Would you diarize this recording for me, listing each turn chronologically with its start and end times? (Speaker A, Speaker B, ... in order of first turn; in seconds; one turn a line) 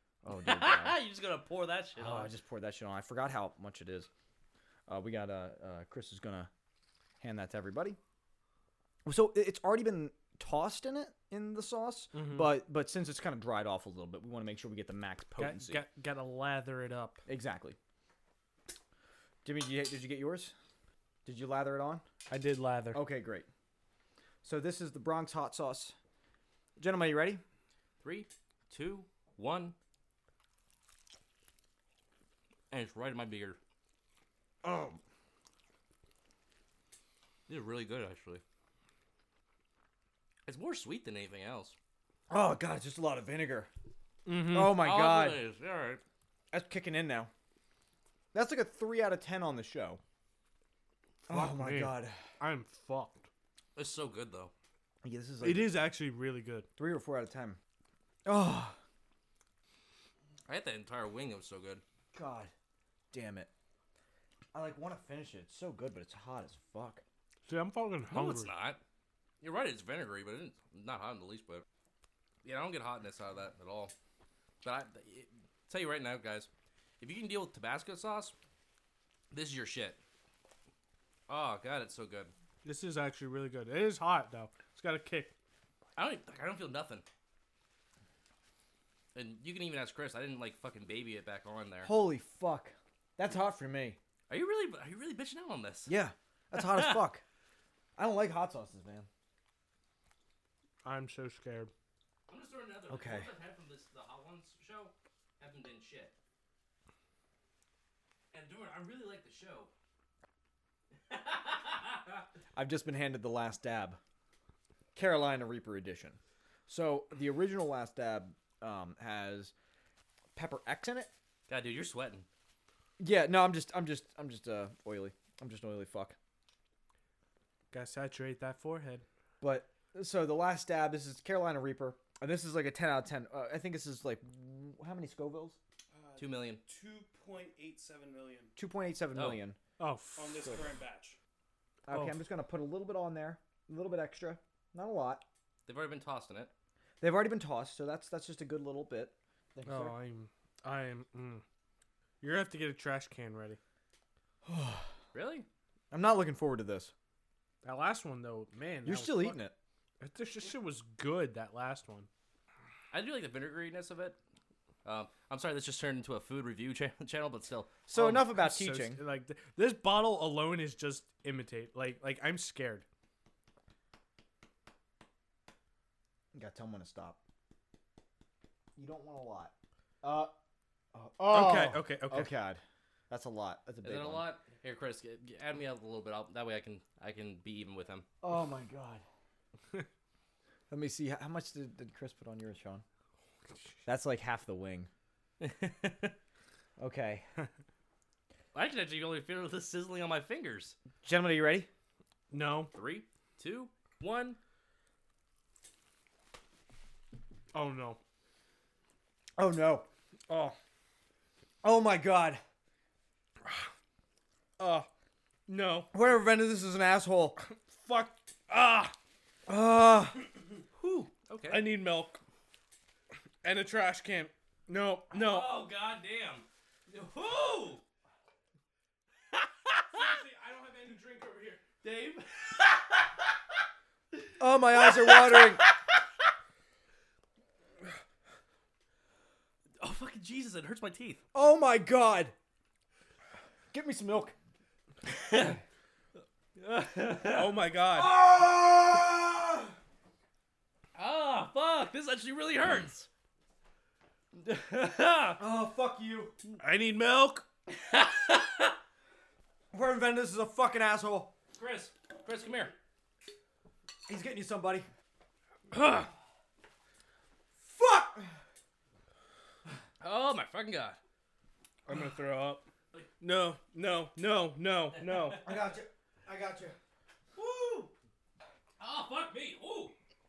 Speaker A: 0.2-1.0
Speaker B: 0.3-2.3
Speaker A: 2.0-4.1
Speaker A: 4.9-6.5
Speaker A: 7.2-8.0
Speaker A: 9.0-15.8
Speaker C: 12.1-12.5
Speaker C: 15.4-17.2
Speaker A: 17.2-17.8
Speaker A: 19.4-20.5
Speaker A: 21.2-22.0
Speaker C: 22.3-23.0
Speaker A: 22.9-23.5
Speaker A: 24.4-25.9
Speaker A: 26.8-27.4
Speaker B: 28.0-29.7
Speaker B: 32.7-33.6
Speaker A: 34.6-35.0
Speaker B: 37.5-38.4
Speaker B: 40.5-41.7
Speaker A: 42.3-43.7
Speaker C: 44.2-44.8
Speaker A: 44.5-45.5
Speaker B: 44.7-46.0
Speaker A: 46.5-47.3
Speaker A: 48.3-50.0
Speaker A: 51.3-52.2
Speaker C: 51.3-53.3
Speaker B: 53.8-54.5
Speaker A: 55.0-55.7
Speaker C: 55.4-56.7
Speaker A: 56.8-57.6
Speaker A: 58.2-58.8
Speaker B: 60.5-61.8
Speaker A: 62.1-62.5
Speaker A: 63.1-63.5
Speaker A: 64.5-67.0
Speaker C: 67.5-68.5
Speaker B: 68.1-68.8
Speaker B: 69.4-71.6
Speaker B: 72.4-73.9
Speaker B: 74.6-76.5
Speaker B: 77.0-78.3
Speaker B: 79.3-80.0
Speaker B: 81.3-82.3
Speaker C: 82.6-85.3
Speaker B: 86.0-87.0
Speaker B: 89.1-91.9
Speaker A: 91.8-94.0
Speaker B: 94.3-95.9
Speaker A: 95.8-97.2
Speaker B: 96.5-97.0
Speaker A: 98.0-99.1
Speaker C: 100.8-101.7
Speaker B: 102.3-106.1
Speaker A: 102.9-103.3
Speaker B: 108.3-109.7
Speaker B: 111.1-112.2
Speaker A: 112.5-114.0
Speaker A: 114.9-119.5
Speaker A: 120.3-121.1
Speaker B: 121.5-122.3
Speaker A: 123.0-126.2
Speaker C: 127.7-129.0
Speaker A: 129.4-135.6
Speaker D: 135.9-138.5
Speaker B: 136.2-136.6
Speaker A: 138.6-139.6
Speaker B: 139.1-139.4
Speaker C: 139.8-140.5
Speaker D: 140.2-141.2
Speaker A: 141.8-145.2
Speaker C: 141.9-142.2
Speaker B: 145.7-146.5
Speaker A: 147.0-149.9
Speaker C: 149.6-151.4
Speaker C: 152.2-153.6
Speaker A: 154.4-154.9
Speaker B: 155.1-155.4
Speaker A: 155.9-156.9
Speaker C: 157.6-159.4
Speaker A: 158.8-159.5
Speaker C: 160.0-162.1
Speaker B: 162.9-164.2
Speaker B: 164.8-167.8
Speaker A: 167.9-169.0
Speaker C: 167.9-172.8
Speaker A: 176.3-177.2
Speaker A: 178.8-180.3
Speaker A: 180.9-184.3
Speaker C: 181.3-182.3
Speaker B: 183.8-188.1
Speaker A: 188.2-189.0
Speaker A: 190.7-192.8
Speaker A: 193.8-194.9
Speaker B: 195.4-196.2
Speaker A: 196.8-197.2
Speaker B: 198.5-200.8
Speaker A: 201.0-201.7
Speaker C: 202.3-202.7
Speaker B: 202.7-204.4
Speaker C: 207.5-208.0
Speaker A: 209.3-209.9
Speaker C: 210.3-210.6
Speaker A: 211.6-212.4
Speaker C: 214.6-214.9
Speaker C: 215.5-215.9
Speaker A: 215.9-217.4
Speaker C: 217.4-218.9
Speaker A: 219.5-220.2
Speaker B: 220.8-221.7
Speaker C: 221.5-222.2
Speaker C: 223.4-225.6
Speaker B: 225.1-227.8
Speaker B: 229.3-230.1
Speaker C: 229.9-231.6
Speaker B: 231.8-233.3
Speaker B: 234.2-235.7
Speaker A: 234.4-235.6
Speaker B: 239.8-241.2
Speaker A: 241.3-242.3
Speaker A: 243.7-244.3
Speaker B: 245.1-245.6
Speaker B: 246.6-247.6
Speaker C: 247.2-248.1
Speaker A: 247.9-249.7
Speaker B: 250.9-253.1
Speaker B: 254.3-255.4
Speaker A: 255.4-256.3
Speaker C: 256.6-257.4
Speaker B: 257.7-258.8
Speaker A: 259.7-261.3
Speaker B: 261.6-262.7
Speaker A: 264.1-264.9
Speaker C: 265.7-266.1
Speaker A: 267.6-268.3
Speaker B: 270.0-271.0
Speaker C: 271.9-272.6
Speaker C: 273.2-275.4
Speaker B: 275.0-275.5
Speaker A: 275.4-276.8
Speaker B: 277.4-277.9
Speaker B: 278.8-279.9